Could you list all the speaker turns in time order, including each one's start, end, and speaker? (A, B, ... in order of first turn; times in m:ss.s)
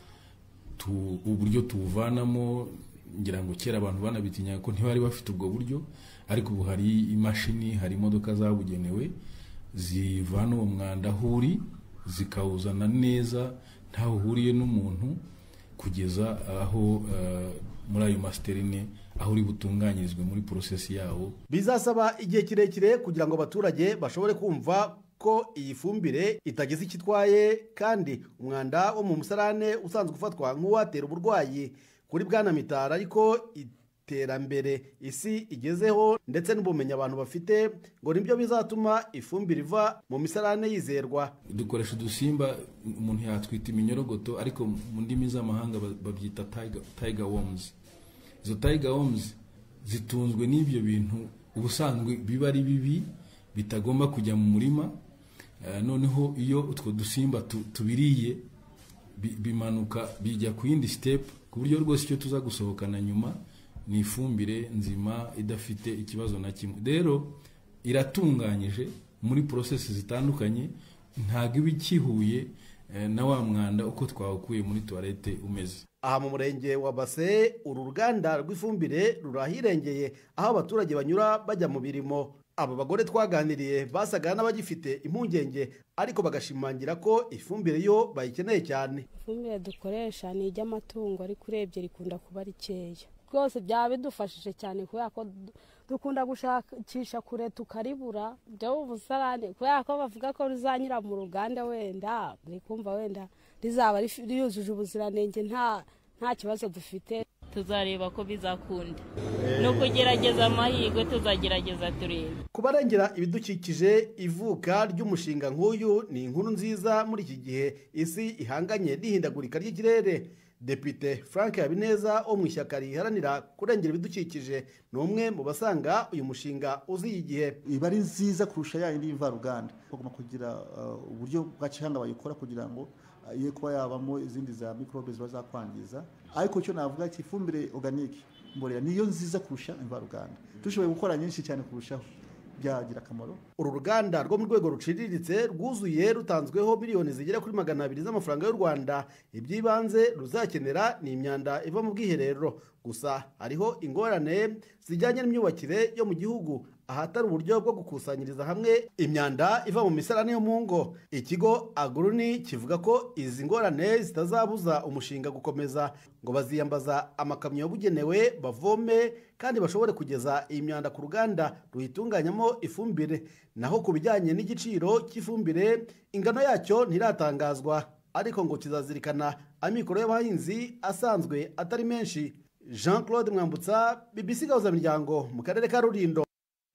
0:00.8-0:09.1 A
0:09.7-0:15.2 A
0:15.8-0:21.4 A
0:21.5-0:41.3 B
0:41.5-0:47.7 A
0:48.4-0:55.0 A
0:55.6-0:58.4 A
0:59.2-1:15.8 A
1:16.0-1:29.1 B
1:29.1-1:47.2 C
1:47.5-1:52.4 D
1:49.4-1:49.8 B
1:52.5-2:07.6 B
2:07.6-2:23.4 E
2:23.6-3:06.2 B